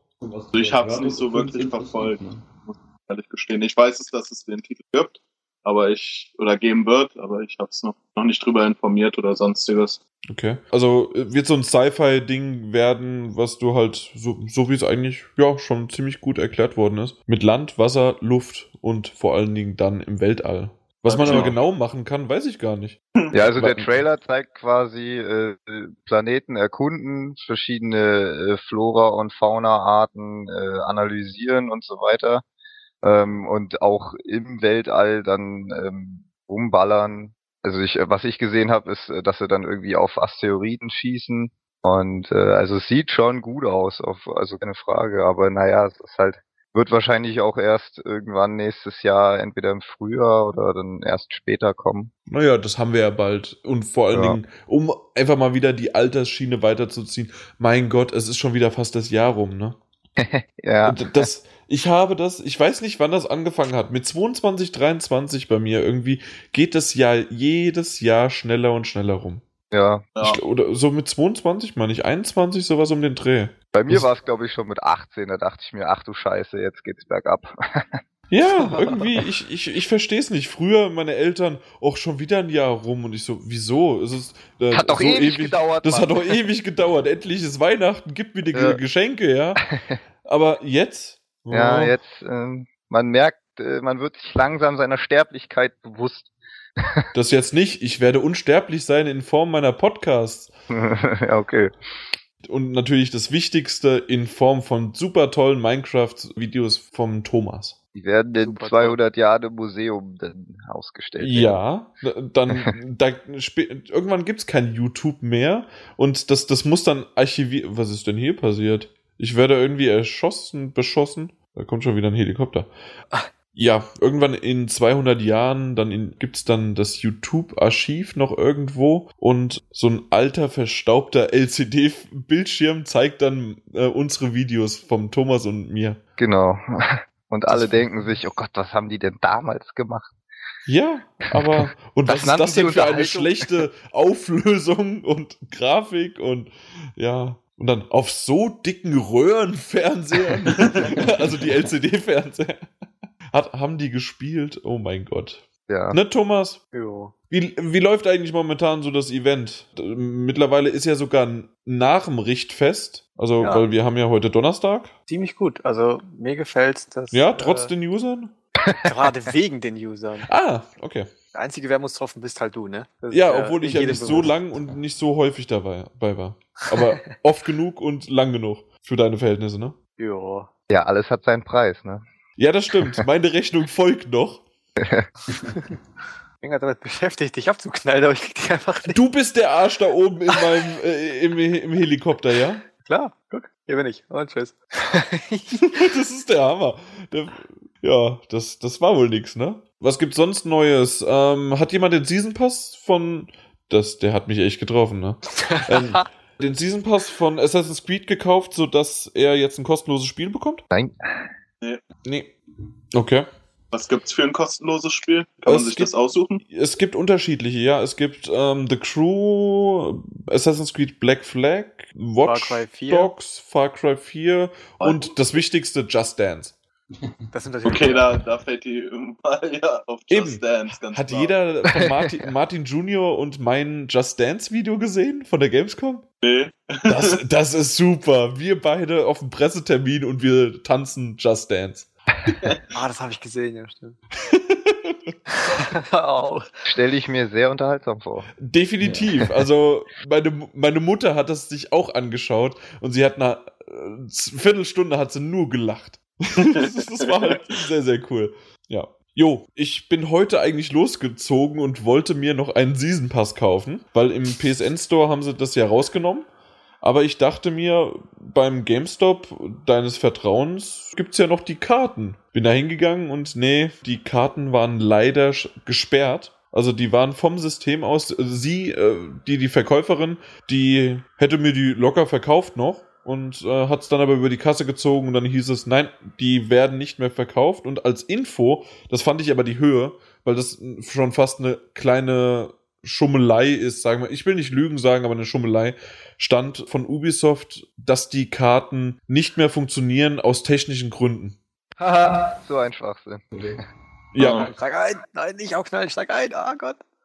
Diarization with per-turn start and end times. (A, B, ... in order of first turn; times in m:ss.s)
0:00.2-0:02.5 A
0:00.5-0:10.0 B
0:10.3-0:23.0 C
0:21.1-0:21.6 B
0:21.3-0:21.5 D
0:23.3-0:32.4 D
0:23.5-0:23.9 C
0:33.0-0:52.1 D
0:52.3-0:59.8 C
0:54.1-0:54.4 D
1:00.2-1:01.3 D
1:00.8-1:09.4 C
1:09.7-1:10.0 D
1:10.2-1:10.4 B
1:10.2-1:14.1 C
1:13.7-1:18.0 D
1:18.3-1:29.7 C
1:24.7-1:26.4 D
1:28.5-1:28.8 D
1:30.2-1:32.0 C
1:31.5-1:37.0 D
1:37.1-1:40.5 C
1:40.7-1:41.7 D
1:42.4-1:47.8 C
1:48.0-1:51.6 D
1:48.4-1:49.0 E
1:51.2-2:02.7 C
2:03.6-2:16.0 C
2:16.2-2:20.1 D
2:17.5-2:17.8 C
2:20.7-2:32.6 C
2:21.4-2:23.5 D
2:33.3-2:36.6 C
2:35.7-2:36.0 D
2:36.7-2:37.1 E
2:37.3-2:44.9 C
2:45.1-2:47.7 E
2:47.1-2:48.3 C
2:48.8-2:50.3 E
2:50.3-2:51.1 C
2:51.3-2:54.5 E
2:53.1-2:59.8 C
3:00.0-3:00.5 E
3:00.7-3:02.0 D
3:02.4-3:04.4 C
3:04.8-3:05.1 D
3:05.5-3:05.8 E
3:06.4-3:09.0 E
3:08.9-3:12.6 C
3:12.8-3:15.8 E
3:15.7-3:30.6 C
3:25.4-3:26.0 E
3:30.7-3:31.0 D
3:32.0-3:32.3 C
3:32.9-3:33.3 C
3:33.7-3:36.4 B
3:35.5-3:35.9 C
3:36.4-3:46.6 C
3:42.2-3:43.1 E
3:44.8-3:45.1 B
3:46.9-3:47.3 A
3:47.3-3:48.1 E
3:47.6-3:51.3 B
3:50.1-3:56.0 C
3:51.8-3:52.3 D
3:56.2-3:57.2 B
3:56.9-4:01.9 C
4:02.7-4:04.0 E
4:04.2-4:05.1 C
4:05.3-4:06.5 E
4:06.7-4:08.3 D
4:08.4-4:26.3 C
4:08.8-4:09.2 A
4:16.4-4:17.4 B
4:26.8-5:01.4 C
5:01.8-5:03.2 D
5:03.3-5:03.6 A
5:04.1-5:04.5 C
5:04.2-5:04.5 B
5:04.4-5:06.8 E